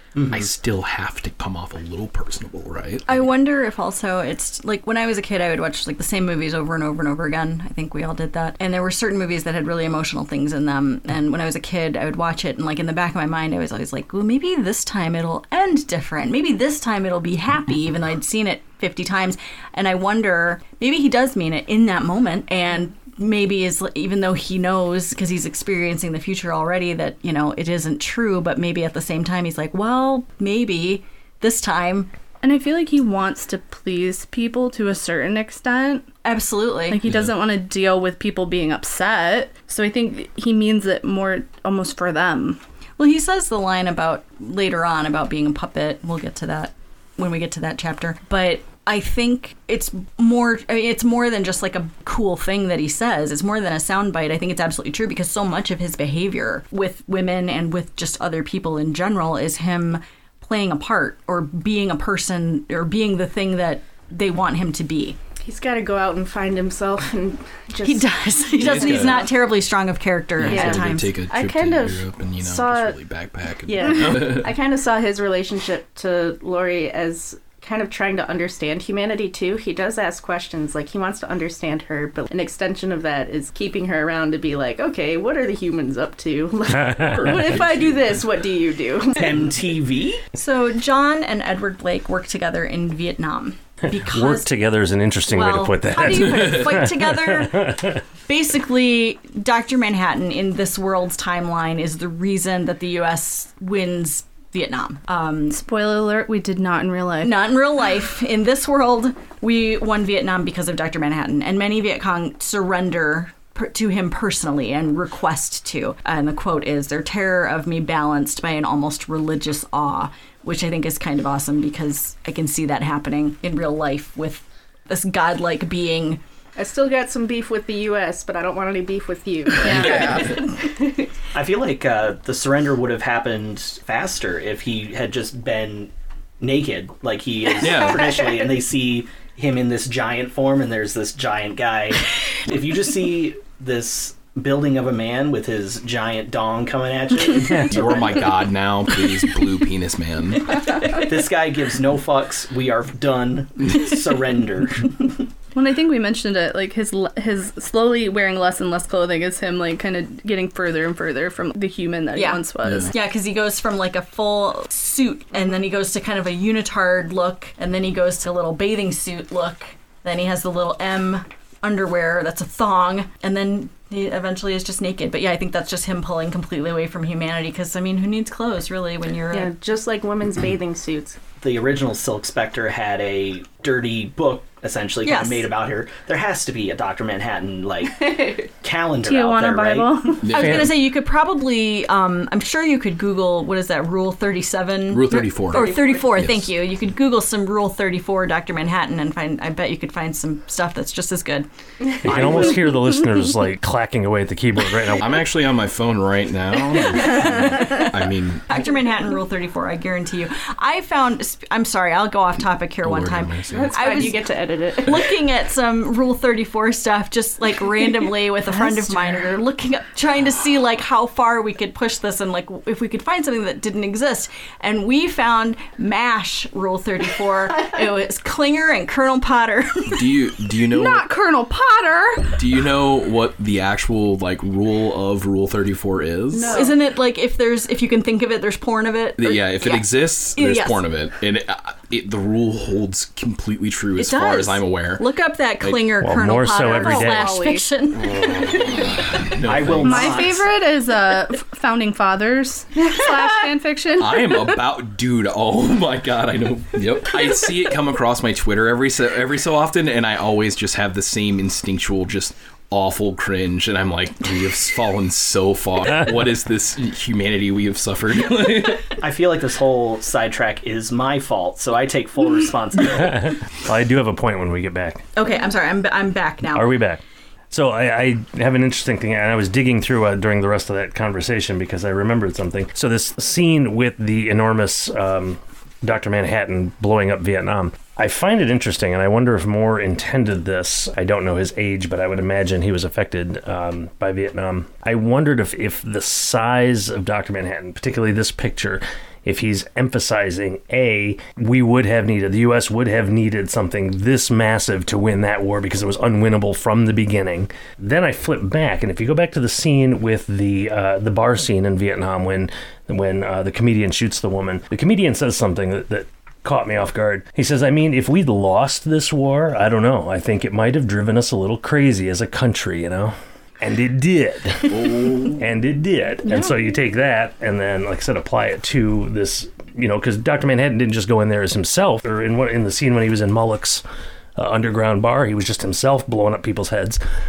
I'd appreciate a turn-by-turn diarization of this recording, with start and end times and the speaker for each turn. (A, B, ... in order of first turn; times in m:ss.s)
0:00.2-0:00.5 A
0:00.3-0:03.3 B
0:03.1-0:32.1 C
0:32.4-0:36.1 D
0:36.2-0:37.1 C
0:36.9-0:42.6 D
0:37.1-0:37.3 B
0:43.0-1:05.2 C
1:05.4-1:09.3 E
1:07.8-1:11.1 C
1:08.6-1:09.3 B
1:10.4-1:14.6 B
1:10.4-1:13.0 E
1:13.6-1:29.5 E
1:26.8-1:27.4 F
1:27.1-1:28.2 B
1:29.1-1:30.2 A
1:30.3-1:34.5 C
1:34.0-1:38.0 F
1:35.3-1:45.6 C
1:45.5-1:47.4 D
1:47.2-2:06.2 C
2:06.6-2:11.1 E
2:09.6-2:10.4 D
2:11.3-2:28.2 A
2:17.6-2:18.1 B
2:17.8-2:18.3 E
2:27.5-2:30.7 B
2:30.7-2:35.2 A
2:35.5-2:42.9 D
2:42.1-2:59.5 C
2:42.6-2:42.9 B
2:59.3-3:01.2 E
3:01.4-3:10.1 A
3:05.0-3:05.5 C
3:08.1-3:08.4 E
3:09.0-3:10.6 D
3:10.2-3:10.8 B
3:10.3-3:21.5 C
3:14.9-3:16.5 B
3:15.5-3:15.9 E
3:22.0-3:25.2 F
3:22.0-3:22.4 E
3:22.1-3:22.6 A
3:25.0-3:28.6 B
3:27.2-3:27.9 C
3:28.5-3:34.2 C
3:32.8-3:34.2 B
3:33.5-3:35.0 E
3:34.8-3:50.1 C
3:49.9-3:51.1 B
3:50.7-3:52.4 D
3:52.4-3:56.7 B
3:56.3-3:56.8 E
3:56.5-4:00.8 C
3:59.2-4:05.0 B
4:04.0-4:08.3 C
4:06.0-4:07.4 F
4:06.7-4:07.7 D
4:08.0-4:10.4 B
4:09.4-4:10.5 A
4:09.8-4:14.6 D
4:14.0-4:29.0 B
4:28.9-4:33.3 A
4:33.0-4:35.0 F
4:35.2-4:36.7 C
4:36.5-5:33.8 F
5:24.7-5:25.4 B
5:34.4-5:37.0 F